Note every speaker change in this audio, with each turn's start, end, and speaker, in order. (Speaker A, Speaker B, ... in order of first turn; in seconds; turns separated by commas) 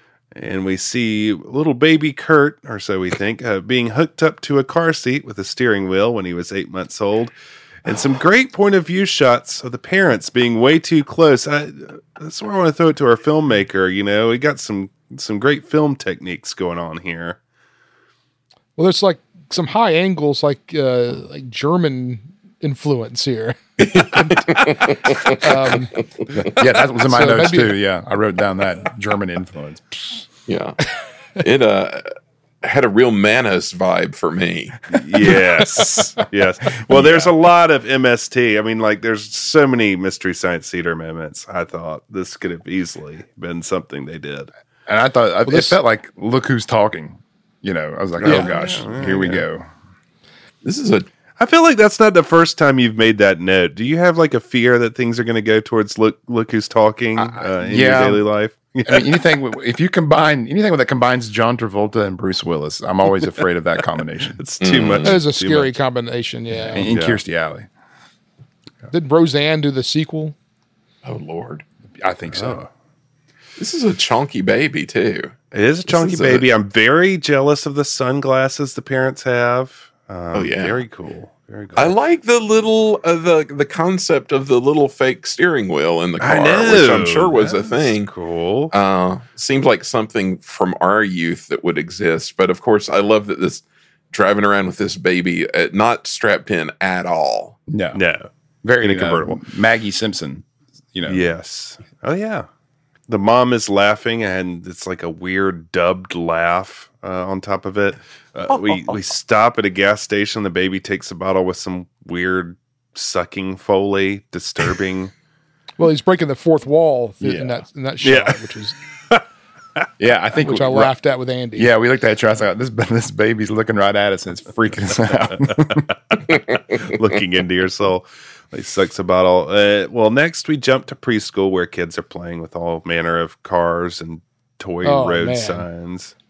Speaker A: 0.3-7.3, Speaker A: 7.9-17.4, Speaker B: 18.8-24.6, Speaker C: 23.8-25.6, Speaker B: 25.2-25.9, Speaker D: 26.4-30.3, Speaker B: 27.1-27.8, Speaker C: 30.5-30.8, Speaker C: 31.4-32.1, Speaker C: 32.6-34.8, Speaker A: 34.9-44.5, Speaker D: 36.9-37.2, Speaker D: 44.9-49.7, Speaker B: 45.5-45.8, Speaker A: 48.2-49.4, Speaker B: 48.2-48.5, Speaker C: 50.6-51.1, Speaker A: 51.4-59.1, Speaker D: 57.1-58.2, Speaker D: 58.9-64.4, Speaker A: 64.4-65.8, Speaker C: 64.6-65.2, Speaker B: 65.0-66.8, Speaker D: 66.6-67.7, Speaker A: 66.8-67.2, Speaker B: 68.9-70.4, Speaker C: 71.0-71.6, Speaker D: 72.0-72.6, Speaker A: 72.3-72.7, Speaker C: 73.6-76.4, Speaker A: 75.5-82.0, Speaker C: 80.3-80.8, Speaker C: 81.8-88.1, Speaker A: 86.2-88.7, Speaker C: 88.7-97.6, Speaker D: 97.7-98.0, Speaker A: 97.9-98.3, Speaker D: 98.6-101.3, Speaker A: 98.8-99.4, Speaker A: 101.1-102.5, Speaker A: 103.1-115.1, Speaker C: 108.5-109.0, Speaker B: 115.8-118.8, Speaker D: 117.2-117.6, Speaker A: 118.0-118.4, Speaker D: 120.0-120.9, Speaker B: 120.4-121.7, Speaker D: 121.6-125.9, Speaker A: 125.3-126.2, Speaker A: 126.8-136.1, Speaker B: 134.8-135.7